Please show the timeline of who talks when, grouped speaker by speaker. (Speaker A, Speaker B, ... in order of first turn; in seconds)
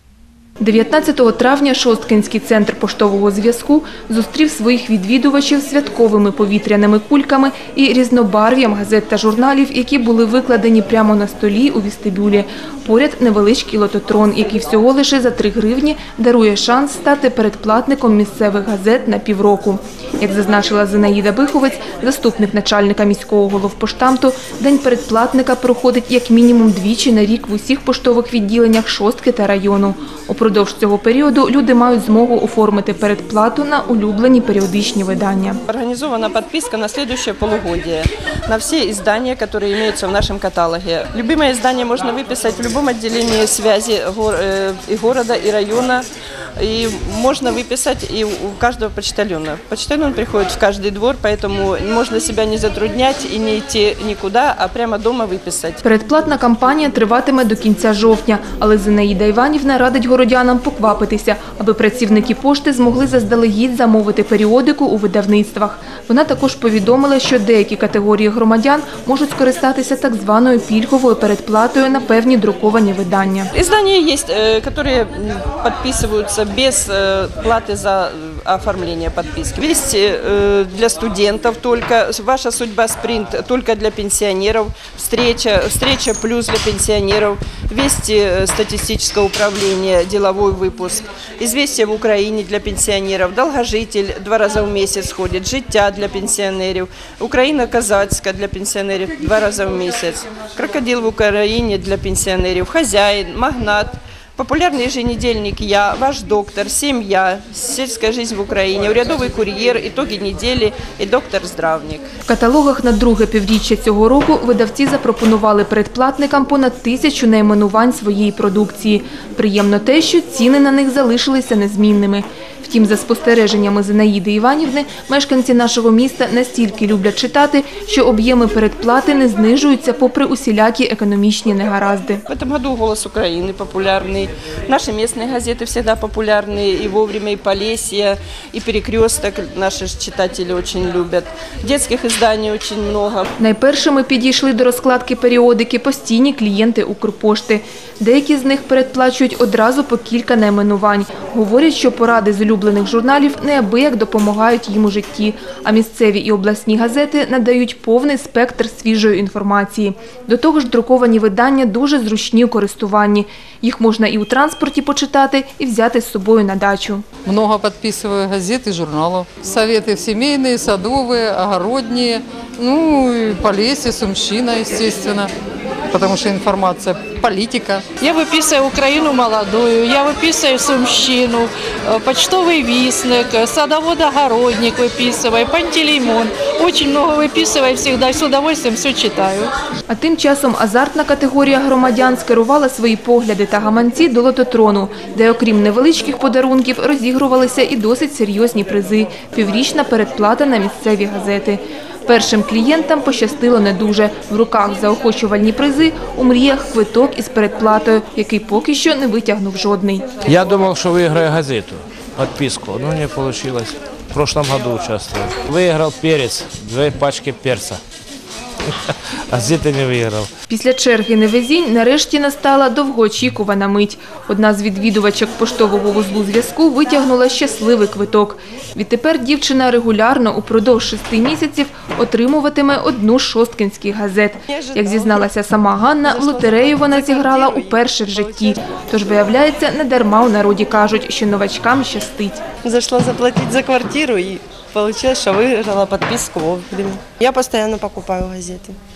Speaker A: 0.6-35.6, 55.8-73.5, 112.3-132.2, 143.4-167.0, 189.9-210.1, 220.5-242.4
Speaker B: 35.7-46.1, 46.6-55.8, 73.5-112.1, 132.3-143.3
Speaker C: 167.3-175.3, 175.9-177.8
Speaker D: 178.0-189.5
Speaker E: 210.2-217.8, 218.7-220.3
Speaker F: 234.6-234.9, 236.1-238.6, 242.6-248.8